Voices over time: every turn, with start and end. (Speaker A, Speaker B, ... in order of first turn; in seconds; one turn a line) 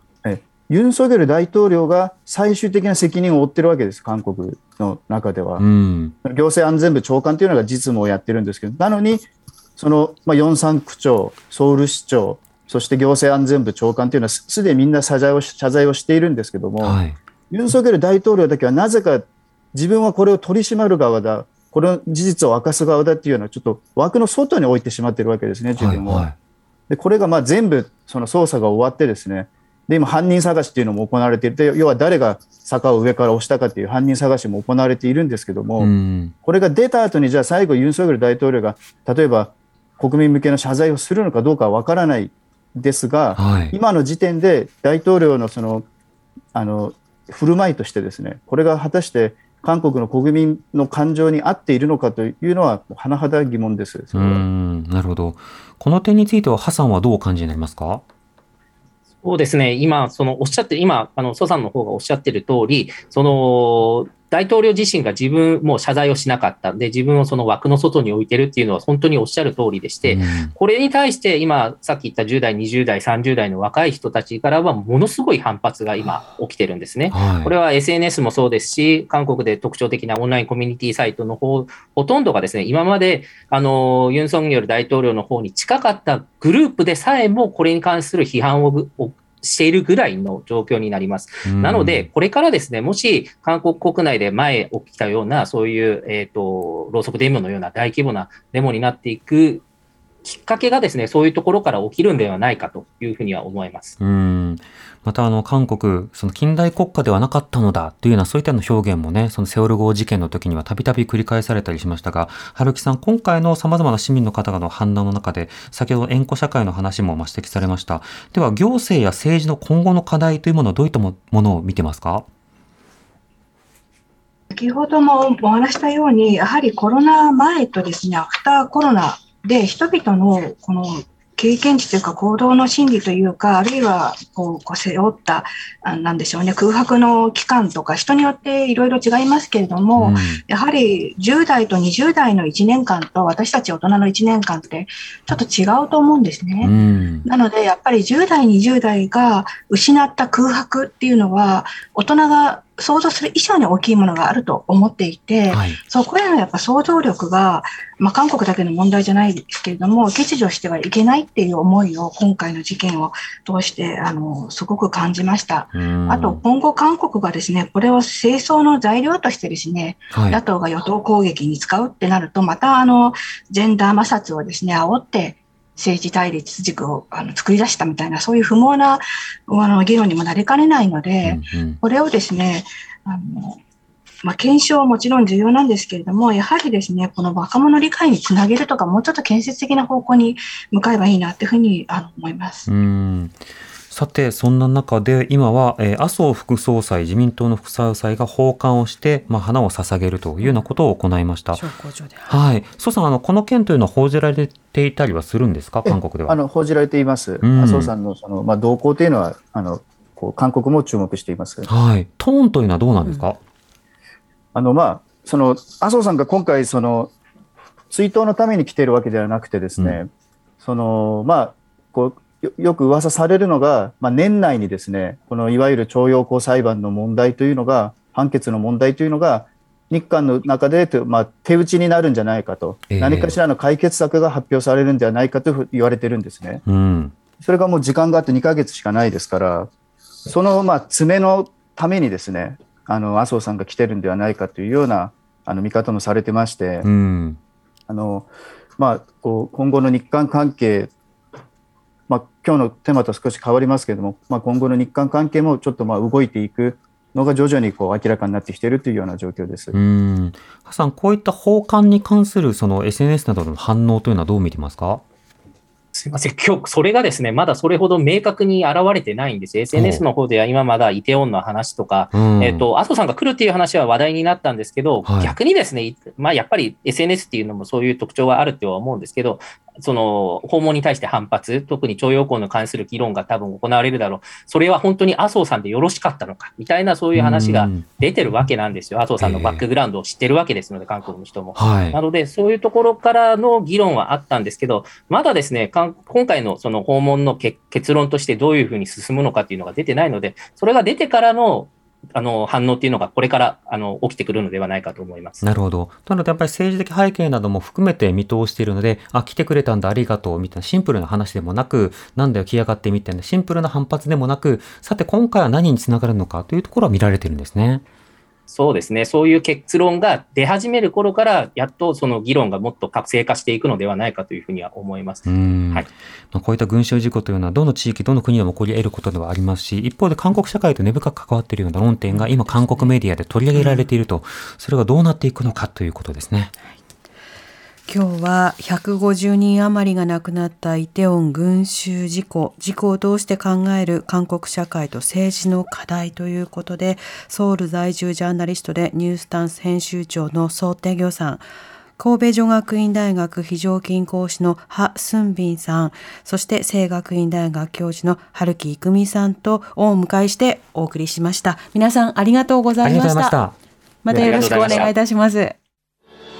Speaker A: 0.2-5.6
Speaker B: 5.6-6.1
Speaker A: 6.2-17.0
Speaker B: 16.8-17.1
Speaker A: 17.5-26.3
Speaker B: 25.8-26.3
Speaker A: 26.9-35.9
Speaker B: 35.8-36.3
Speaker A: 36.4-45.9
Speaker B: 43.3-43.8
Speaker A: 46.5-54.4
Speaker B: 54.1-58.0
Speaker C: 59.2-99.6
Speaker B: 70.0-70.5
Speaker B: 77.1-77.5
Speaker B: 91.5-92.1
Speaker C: 100.2-104.0
Speaker B: 104.0-122.3
Speaker D: 124.5-146.7
Speaker B: 139.9-140.4
Speaker B: 146.6-147.3
Speaker D: 147.2-183.6
Speaker B: 155.5-155.8
Speaker B: 165.7-166.4
Speaker B: 170.1-170.4
Speaker B: 181.2-181.8
Speaker D: 184.2-192.7
Speaker B: 192.7-193.4
Speaker B: 193.9-201.6
Speaker E: 201.5-202.4
Speaker B: 202.3-206.4
Speaker A: 205.8-211.7
Speaker B: 207.4-207.9
Speaker B: 211.7-213.4
Speaker A: 214.5-217.1
Speaker A: 217.9-220.1
Speaker A: 220.6-236.6
Speaker B: 232.9-233.3
Speaker B: 236.7-237.1
Speaker A: 237.4-239.7
Speaker A: 240.3-246.9
Speaker B: 246.8-247.4
Speaker A: 247.9-250.9
Speaker A: 252.1-259.8
Speaker B: 259.7-265.0
Speaker C: 265.9-305.4
Speaker B: 269.7-270.0
Speaker B: 272.1-272.6
Speaker B: 275.1-275.4
Speaker B: 287.1-287.9
Speaker B: 289.2-289.6
Speaker B: 291.6-292.0
Speaker B: 305.4-317.8
Speaker C: 318.5-325.9
Speaker B: 325.3-336.5
Speaker E: 332.1-332.9
Speaker E: 333.5-333.9
Speaker E: 337.9-351.4
Speaker E: 352.0-363.4
Speaker B: 362.8-363.6
Speaker E: 364.1-365.6
Speaker C: 364.1-364.9